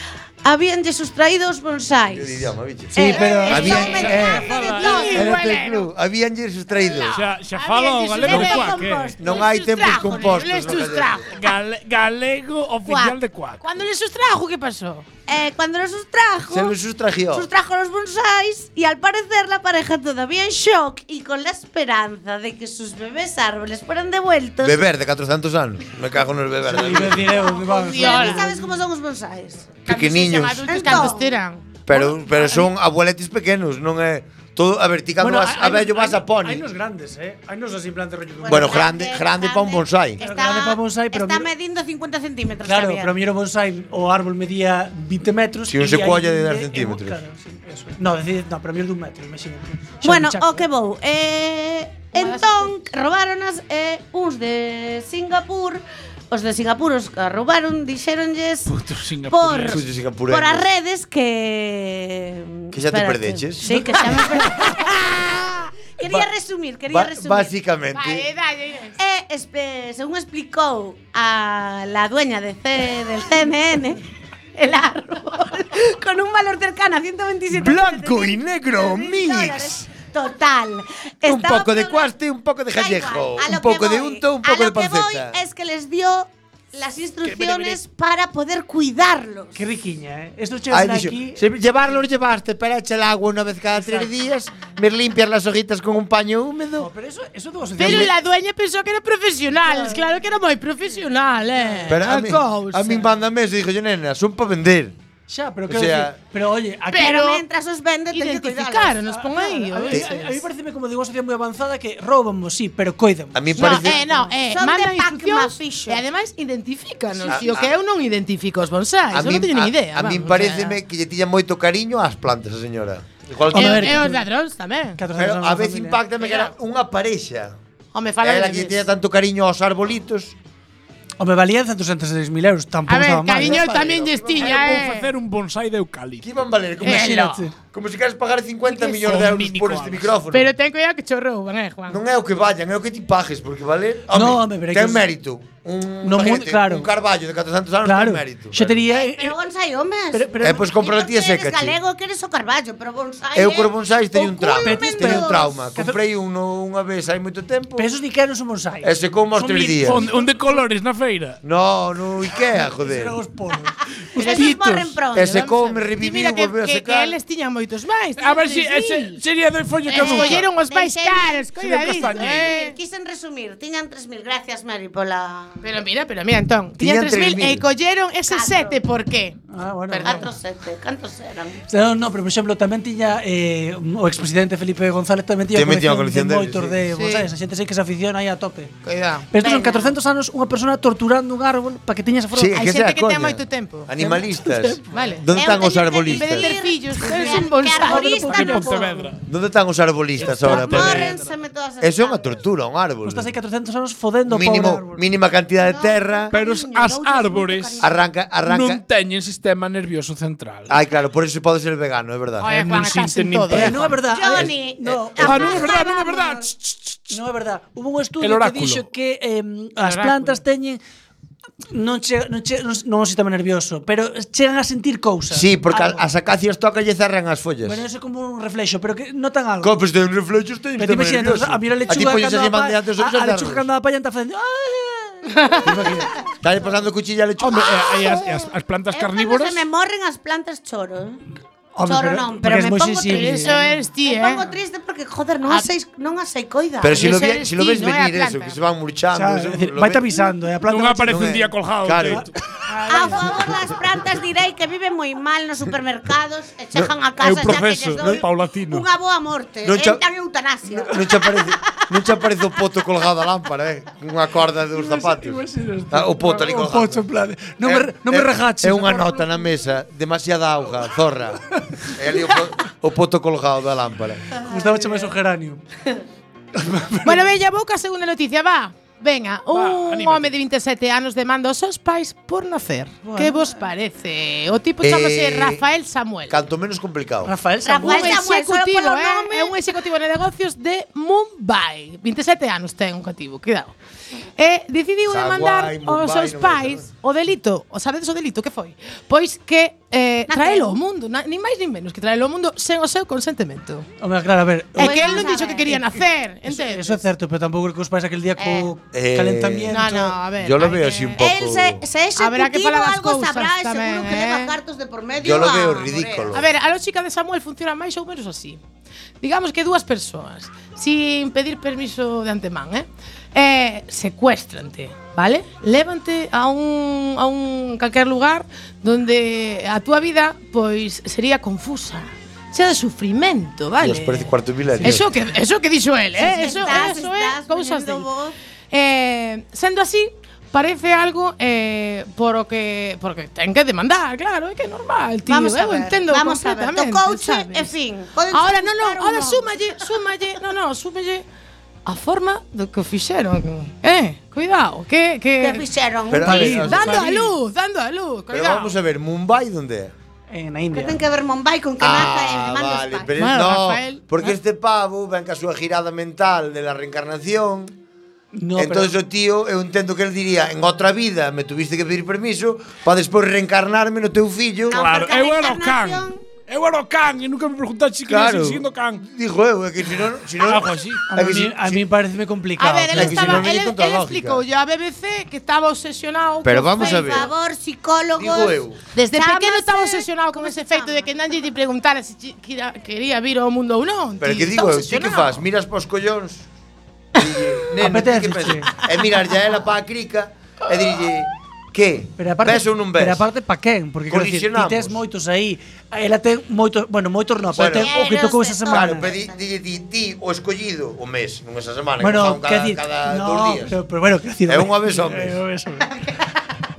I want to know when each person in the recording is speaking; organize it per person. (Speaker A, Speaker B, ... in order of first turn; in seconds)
Speaker A: 0.4-5.3, 6.7-10.2, 12.8-13.2, 15.3-16.8, 17.3-24.8, 27.3-29.8, 30.6-31.4, 38.4-43.1, 50.0-58.7, 59.2-67.5, 69.0-74.0, 74.5-82.1, 82.7-89.6, 106.9-109.0, 113.6-116.0, 148.8-155.6, 164.1-165.5, 169.9-175.6, 178.3-178.8, 180.0-181.6, 189.3-189.9, 195.3-198.9, 200.2-202.4, 205.6-207.9, 214.1-216.4, 237.7-238.3, 238.9-241.2, 241.8-247.1, 252.8-262.1, 274.5-275.1, 287.6-289.5, 300.3-300.8, 304.8-305.8, 308.4-308.7, 311.2-316.4, 336.2-338.3, 345.3-349.6, 355.4-356.8, 360.7-363.1, 374.7-376.2, 386.7-388.6, 389.1-391.1, 407.8-409.4
Speaker B: 2.1-4.5, 5.1-7.2, 9.2-11.3, 16.5-17.5, 24.6-27.4, 29.9-30.8, 31.9-36.6, 38.5-40.2, 45.7-47.2, 59.6-60.7, 62.7-63.7, 66.0-66.3, 66.9-68.3, 77.5-79.9, 81.2-85.4, 90.7-96.9, 97.8-98.1, 101.9-105.0, 105.7-106.2, 113.3-114.0, 117.2-117.7, 119.1-124.1, 125.2-127.5, 128.2-130.3, 133.4-134.7, 136.2-140.5, 141.9-148.7, 150.4-151.8, 153.3-157.9, 158.8-160.1, 161.4-163.2, 165.1-167.2, 176.8-177.6, 185.5-186.8, 192.3-196.5, 199.3-201.1, 201.8-203.3, 204.3-206.3, 207.8-208.8, 210.7-212.5, 225.3-227.8, 229.6-233.7, 235.6-238.1, 246.8-250.1, 251.1-252.2, 257.4-258.2, 259.6-260.0, 260.9-267.0, 267.6-274.2, 284.8-285.6, 286.3-287.3, 295.1-296.9, 308.9-311.8, 315.2-316.5, 333.8-335.1, 356.1-357.2, 358.3-359.9, 361.8-367.7, 368.6-374.9, 378.1-381.8, 382.9-384.4, 386.4-387.3, 388.1-388.8, 394.2-396.4, 397.1-403.2, 404.1-405.0, 407.5-407.9, 408.7-413.8, 414.5-415.4
Speaker C: 3.0-3.8, 26.6-28.6, 35.2-38.8, 40.2-41.5, 42.6-50.6, 87.2-87.8, 89.5-91.4, 93.7-94.1, 96.8-98.2, 99.6-100.1, 101.6-102.0, 105.3-107.1, 109.1-113.5, 123.5-124.2, 125.0-126.0, 131.2-134.0, 136.8-137.5, 144.1-145.1, 146.0-146.9, 147.8-149.4, 150.1-150.6, 154.6-156.0, 157.7-158.9, 159.8-160.6, 162.5-165.0, 179.5-180.3, 181.7-188.7, 189.3-192.6, 194.0-195.1, 197.0-199.1, 203.0-205.0, 213.5-216.1, 217.1-220.8, 221.7-226.1, 227.6-229.8, 230.8-236.0, 241.7-243.8, 249.1-252.2, 264.7-269.3, 274.4-275.6, 276.6-277.3, 283.0-283.6, 287.2-288.3, 304.0-305.4, 306.4-310.1, 356.2-357.3, 360.3-361.0, 368.3-368.9, 381.1-383.4, 397.8-398.7, 402.2-409.1, 412.0-415.9
Speaker D: 3.1-5.9, 7.8-11.4, 13.6-15.1, 27.8-28.5, 29.9-32.6, 52.1-52.7, 67.9-69.0, 97.8-103.0, 106.9-107.4, 108.1-110.4, 113.5-120.8, 123.5-125.0, 126.2-126.5, 127.9-128.8, 132.9-135.1, 136.8-137.4, 138.7-139.0, 140.3-142.0, 164.2-164.6, 165.1-169.2, 169.9-172.8, 175.6-179.4, 179.9-180.3, 186.9-187.2, 188.8-189.3, 192.5-193.9, 194.9-198.6, 212.4-213.8, 219.8-220.4, 235.3-235.7, 243.1-244.4, 246.9-248.6, 252.7-253.3, 277.0-286.4, 287.8-293.7, 294.4-303.9, 304.7-307.0, 309.7-311.3, 312.2-314.5, 316.3-318.6, 319.2-334.3, 334.8-338.1, 338.7-347.7, 348.3-351.2, 351.9-355.6, 356.4-358.7, 363.2-364.4, 382.6-387.3, 388.9-395.4
Speaker E: 3.7-5.3, 7.1-9.1, 11.3-13.6, 58.7-59.8, 134.3-136.3, 139.0-140.1, 159.4-161.4, 168.2-170.5, 171.6-172.5, 198.6-199.2, 200.2-201.3, 206.3-207.9, 208.4-210.7, 212.4-213.9, 215.2-217.2, 218.2-218.9, 237.4-239.6, 250.6-252.3, 257.2-258.9, 279.5-280.3, 374.7-379.0, 380.4-381.1